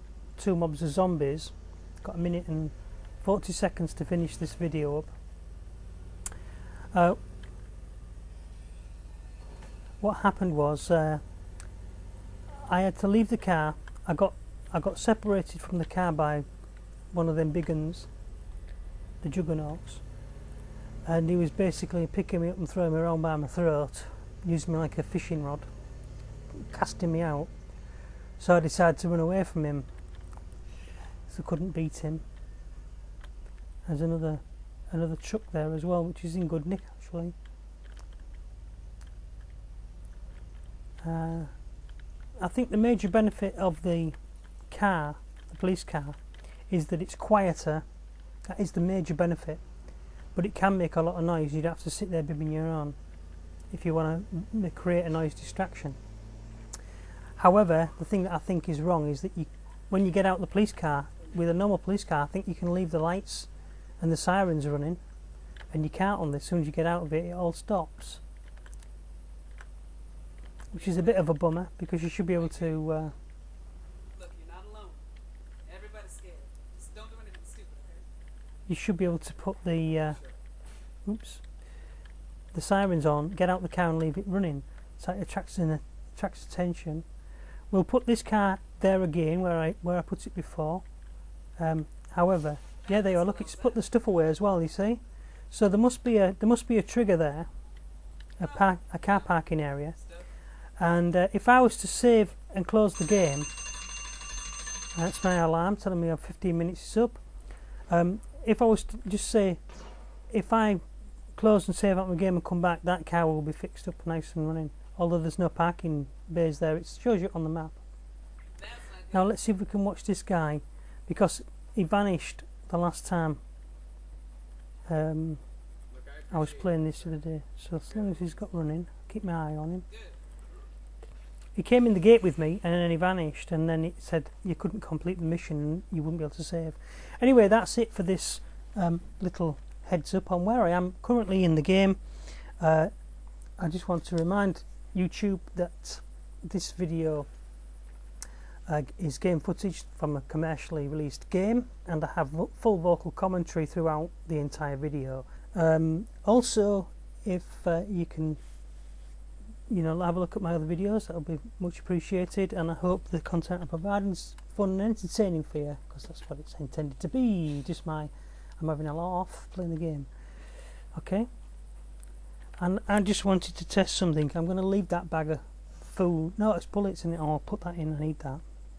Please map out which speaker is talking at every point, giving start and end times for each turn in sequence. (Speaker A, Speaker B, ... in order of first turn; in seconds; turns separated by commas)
Speaker A: 0.4-5.2, Speaker A: 6.9-7.2, Speaker A: 10.0-11.2, Speaker A: 12.6-16.5, Speaker A: 17.1-18.1, Speaker A: 19.2-20.0, Speaker A: 21.0-25.7, Speaker A: 26.5-27.6, Speaker A: 28.4-29.9, Speaker A: 31.3-32.2, Speaker A: 33.9-37.4, Speaker A: 41.0-41.7, Speaker A: 42.4-47.9, Speaker A: 48.5-49.6, Speaker A: 50.3-53.0, Speaker A: 53.7-56.0, Speaker A: 57.4-65.0, Speaker A: 65.7-68.2, Speaker B: 70.7-71.3, Speaker A: 70.7-73.2, Speaker B: 72.3-72.8, Speaker B: 74.1-75.0, Speaker B: 75.7-78.1, Speaker A: 78.7-80.2, Speaker A: 81.0-81.6, Speaker A: 82.5-87.1, Speaker A: 87.7-90.9, Speaker A: 91.6-97.5, Speaker B: 92.8-93.9, Speaker A: 98.4-100.0, Speaker B: 98.4-99.4, Speaker B: 99.9-100.3, Speaker A: 100.8-103.5, Speaker A: 104.9-109.6, Speaker A: 110.3-110.8, Speaker A: 111.3-117.8, Speaker B: 118.5-119.3, Speaker A: 119.1-123.4, Speaker A: 124.9-125.4, Speaker B: 125.9-127.1, Speaker A: 126.3-129.9, Speaker B: 129.9-130.2, Speaker A: 131.6-142.9, Speaker A: 143.6-147.3, Speaker A: 148.7-158.4, Speaker A: 159.7-171.3, Speaker A: 172.6-178.4